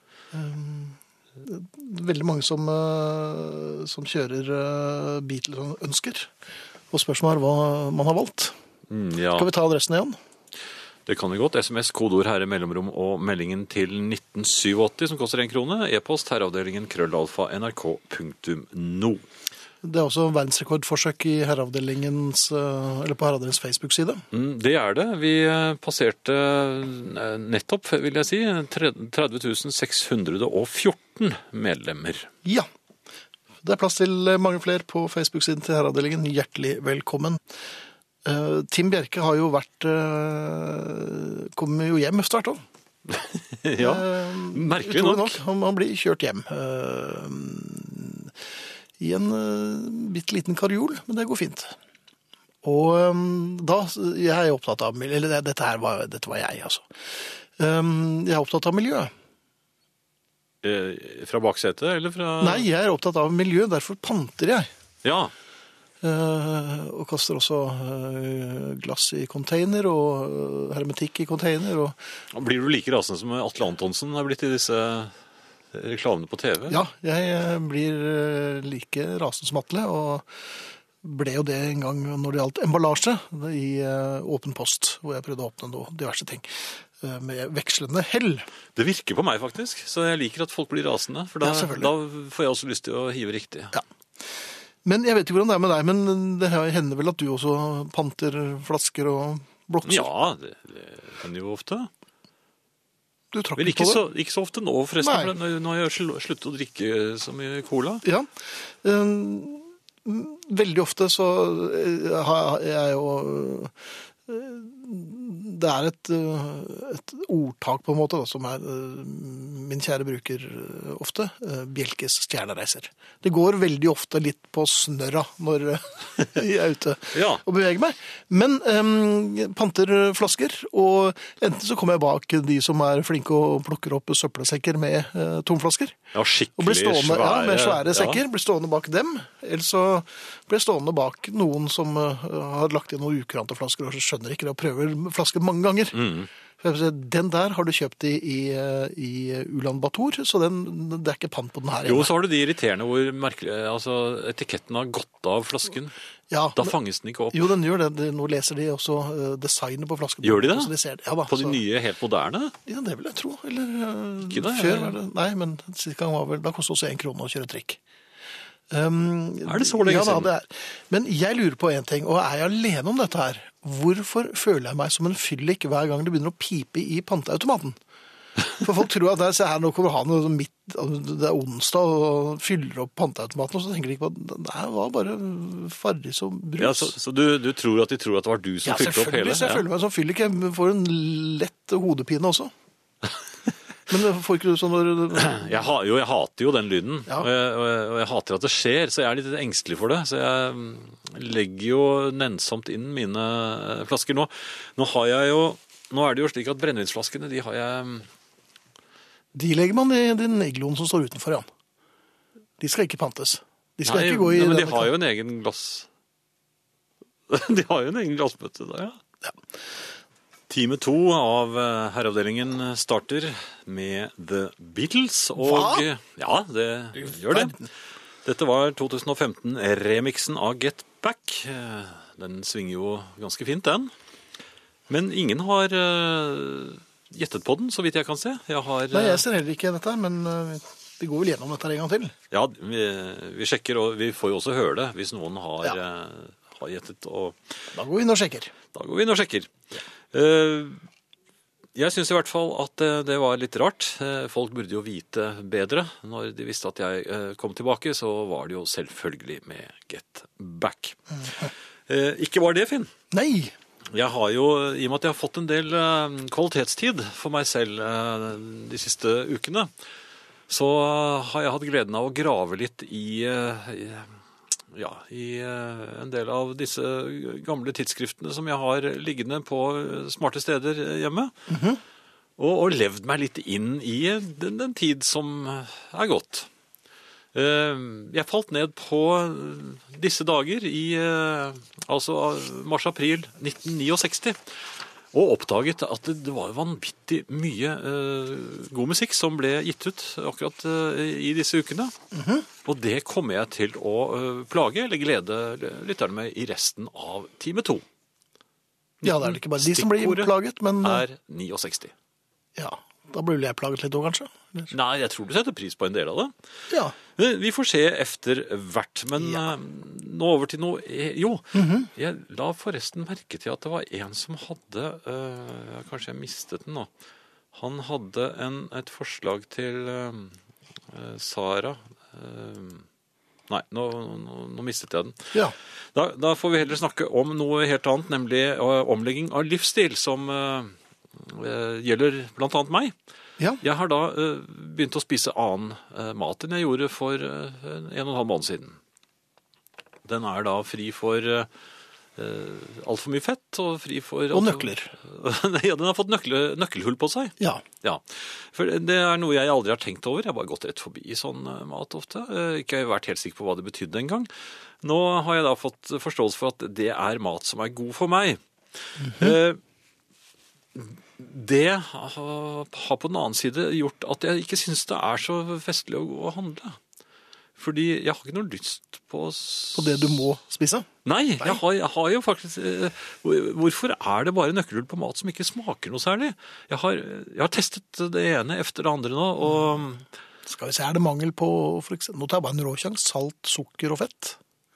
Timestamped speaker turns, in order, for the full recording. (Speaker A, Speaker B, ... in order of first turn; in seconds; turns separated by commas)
Speaker A: 0.3-6.3, Speaker A: 6.9-8.5, Speaker B: 8.9-9.5, Speaker A: 9.3-10.2, Speaker B: 11.1-19.2, Speaker A: 19.8-24.2, Speaker B: 24.3-32.3, Speaker A: 33.6-37.4, Speaker A: 38.2-42.6, Speaker B: 43.1-45.4, Speaker A: 43.8-48.3, Speaker A: 49.0-51.8, Speaker A: 52.6-56.9, Speaker A: 57.6-59.1, Speaker B: 60.6-62.7, Speaker A: 62.4-64.7, Speaker B: 65.0-65.3, Speaker A: 66.0-71.9, Speaker B: 72.3-75.1, Speaker B: 75.7-76.8, Speaker A: 76.7-80.2, Speaker A: 81.0-88.5, Speaker B: 88.7-93.7, Speaker A: 91.4-91.9, Speaker A: 94.8-100.1, Speaker B: 99.8-101.9, Speaker A: 103.3-104.0, Speaker B: 103.6-108.0, Speaker A: 105.0-105.3, Speaker A: 108.0-113.7, Speaker A: 114.3-136.0, Speaker B: 127.1-127.4, Speaker B: 136.1-138.2, Speaker A: 136.6-146.0, Speaker B: 145.9-146.3, Speaker A: 146.6-152.1, Speaker B: 151.8-155.9, Speaker A: 156.3-156.7, Speaker B: 156.6-157.5, Speaker A: 157.3-161.6, Speaker B: 160.2-160.7, Speaker B: 161.3-162.5, Speaker A: 162.7-167.8, Speaker B: 164.2-165.0, Speaker A: 168.7-177.8, Speaker B: 169.4-170.3, Speaker A: 178.6-186.9, Speaker B: 186.6-189.7, Speaker A: 188.6-192.5, Speaker A: 193.9-195.5, Speaker B: 195.2-208.1, Speaker A: 209.3-211.4, Speaker A: 212.6-214.9, Speaker B: 213.8-215.9, Speaker B: 217.3-219.0, Speaker B: 220.5-227.5, Speaker A: 225.4-225.9, Speaker A: 227.0-227.7, Speaker B: 228.2-233.9, Speaker B: 234.9-239.2, Speaker A: 238.9-242.1, Speaker B: 242.3-247.5, Speaker A: 247.7-248.5, Speaker B: 248.7-249.5, Speaker B: 250.1-250.8, Speaker B: 251.7-261.0, Speaker B: 261.9-262.9, Speaker A: 263.1-263.5, Speaker B: 263.9-269.7, Speaker B: 270.5-274.1, Speaker B: 274.7-281.3, Speaker A: 281.5-281.8, Speaker B: 282.4-286.5, Speaker B: 287.3-294.4, Speaker B: 295.1-301.9, Speaker A: 302.1-302.5, Speaker B: 302.6-307.8, Speaker B: 309.0-311.9, Speaker A: 309.0-311.0, Speaker A: 312.6-314.7, Speaker B: 314.7-316.3, Speaker A: 316.7-316.9, Speaker B: 317.1-326.9, Speaker A: 319.2-319.4, Speaker A: 321.5-321.9, Speaker B: 327.5-330.4, Speaker B: 330.9-332.9, Speaker B: 333.5-335.3, Speaker B: 335.9-342.9, Speaker B: 343.6-348.8, Speaker B: 350.0-351.5, Speaker B: 352.1-364.3, Speaker A: 354.3-354.9, Speaker B: 364.8-368.4, Speaker B: 369.0-369.6, Speaker A: 369.0-369.3, Speaker B: 370.7-376.8, Speaker B: 377.6-380.2, Speaker A: 379.7-380.9, Speaker B: 381.0-390.0, Speaker A: 390.4-394.4